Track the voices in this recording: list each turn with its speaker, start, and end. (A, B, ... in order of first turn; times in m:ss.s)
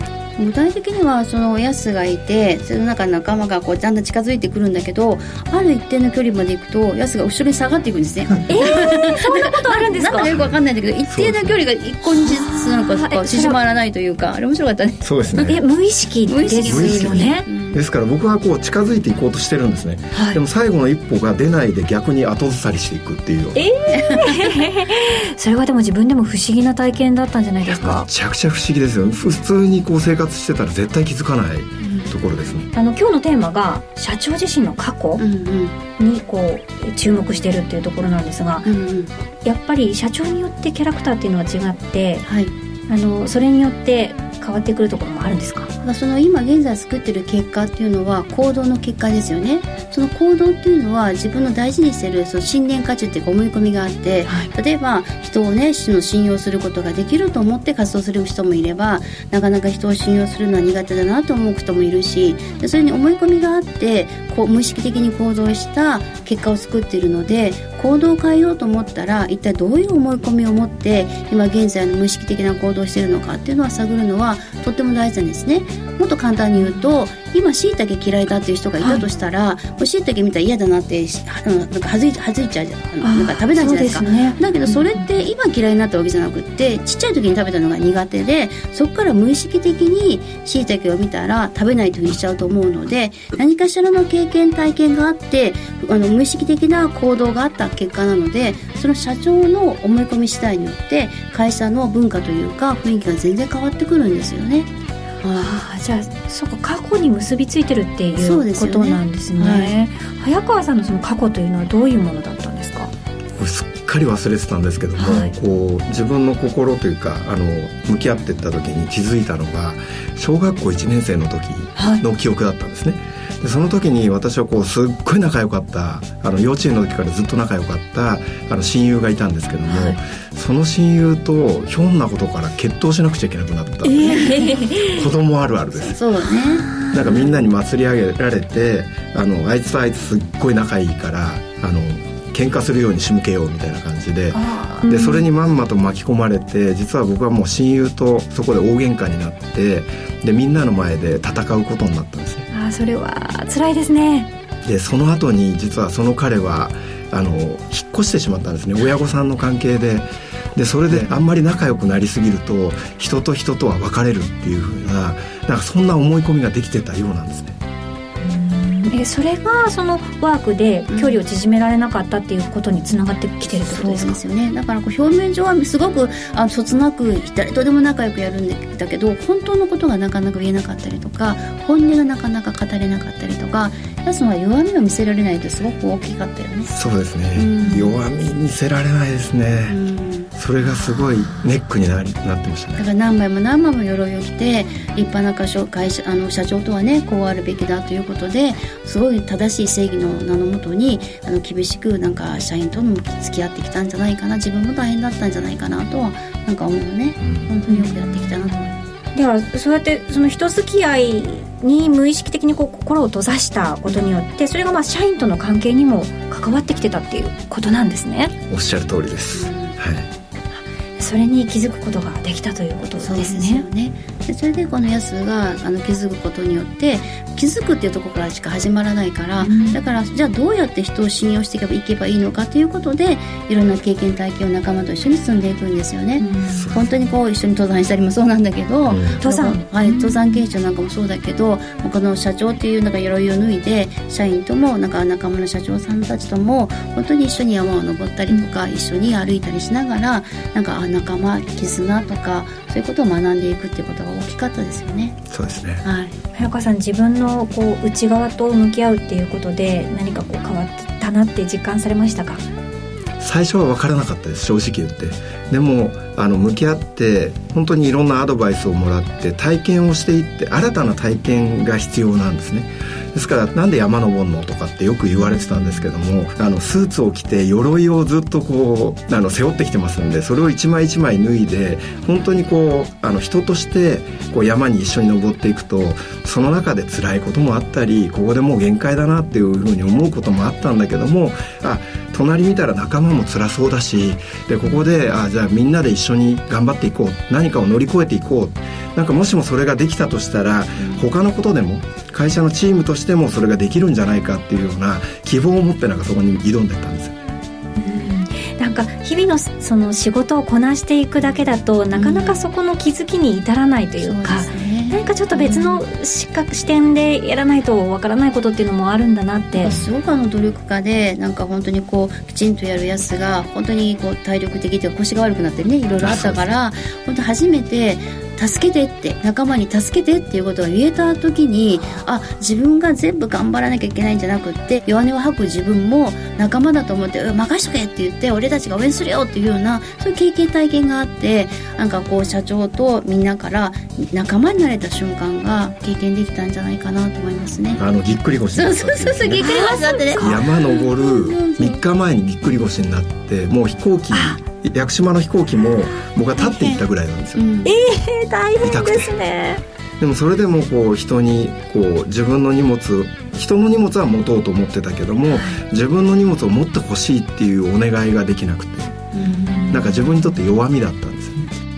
0:00.4-0:15.5 A
0:08.5-0:10.3 B
0:10.2-0:11.6 C
0:12.0-0:13.6 B
0:15.0-0:15.6 C
0:15.4-0:17.4 B
0:16.2-0:17.8 A
0:16.6-0:23.6 C
0:20.1-0:20.4 B
0:23.5-0:28.1 B
0:27.6-0:32.7 C
0:31.8-0:32.2 A
0:32.7-0:35.2 B
0:35.2-0:35.8 A
0:36.0-0:38.7 B
0:38.6-0:39.1 A
0:39.4-0:42.2 B
0:42.2-0:42.5 A
0:42.9-0:45.7 B
0:45.8-1:44.7 A
1:16.6-1:17.0 B
1:18.8-1:19.0 B
1:23.0-1:25.2 B
1:45.2-1:45.6 A
1:45.3-1:52.9 B
1:48.2-1:49.8 A
1:53.4-2:16.0 C
1:55.0-1:55.3 B
2:01.8-2:02.0 B
2:09.7-2:10.0 B
2:13.8-2:15.1 B
2:15.7-2:16.7 A
2:16.3-2:17.4 B
2:16.9-2:32.5 C
2:24.3-2:25.3 B
2:32.5-2:34.3 B
2:34.6-2:47.6 C
2:48.2-2:54.2 B
2:50.9-2:51.2 A
2:53.4-3:06.7 A
3:06.7-3:09.8 C
3:07.4-3:08.0 A
3:09.7-3:10.3 A
3:10.3-3:12.8 C
3:12.8-3:28.8 A
3:27.2-3:27.5 C
3:27.7-3:38.3 B
3:38.5-3:40.1 C
3:39.3-3:39.8 A
3:40.5-3:43.6 B
3:43.0-4:15.2 A
3:49.4-3:49.8 B
3:56.2-3:57.0 B
3:56.5-3:56.9 C
3:58.8-3:59.2 C
3:59.2-4:00.4 B
4:15.3-4:15.8 C
4:15.8-4:16.2 A
4:16.3-4:22.4 B
4:23.2-5:07.1 C
5:00.8-5:01.0 A
5:07.8-5:19.8 B
5:11.9-5:12.4 A
5:14.0-5:15.8 A
5:19.6-5:47.8 A
5:26.0-5:26.5 C
5:47.8-5:49.6 C
5:48.5-5:51.8 A
5:49.4-5:50.5 B
5:50.1-5:57.4 C
5:54.1-5:54.4 B
5:56.4-5:56.8 B
5:57.4-5:57.7 A
5:57.6-5:59.6 B
5:58.6-5:59.1 C
6:00.0-6:09.0 C
6:05.3-6:05.6 B
6:09.1-6:09.8 A
6:09.2-6:10.1 B
6:09.7-6:11.5 C